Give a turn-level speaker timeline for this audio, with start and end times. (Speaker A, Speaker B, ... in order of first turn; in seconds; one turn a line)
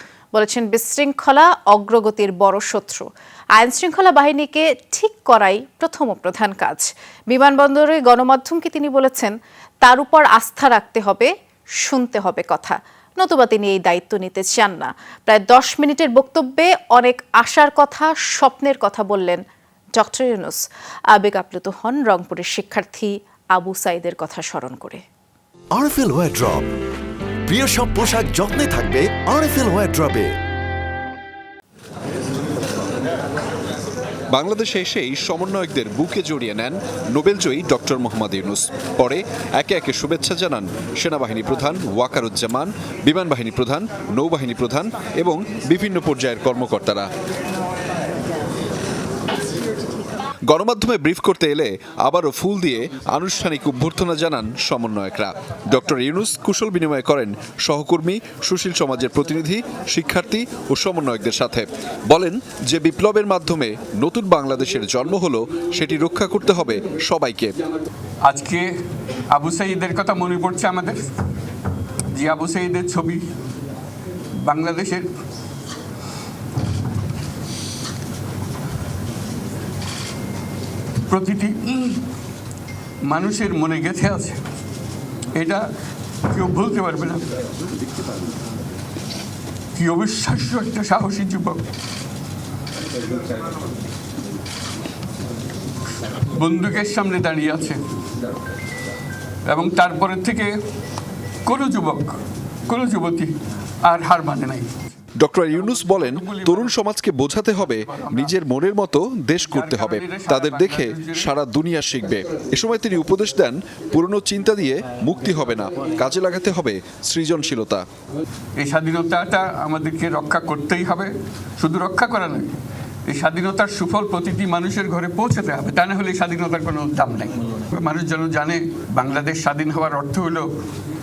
Speaker A: 0.3-11.3
Speaker A: 11.8-19.4
Speaker A: 20.0-25.0
Speaker B: 25.7-26.7
Speaker B: 27.5-30.3
Speaker C: 34.3-47.1
Speaker C: 50.5-67.5
Speaker D: 68.2-68.7
Speaker D: 69.3-71.1
Speaker D: 72.1-73.3
Speaker D: 74.4-75.1
Speaker D: 81.1-82.1
Speaker D: 83.1-84.4
Speaker D: 85.3-85.6
Speaker D: 86.3-87.3
Speaker D: 89.8-91.6
Speaker D: 96.3-97.8
Speaker D: 99.5-100.6
Speaker D: 101.5-104.7
Speaker C: 105.2-117.8
Speaker D: 105.6-106.8
Speaker D: 107.7-108.3
Speaker D: 109.4-111.3
Speaker D: 118.6-130.5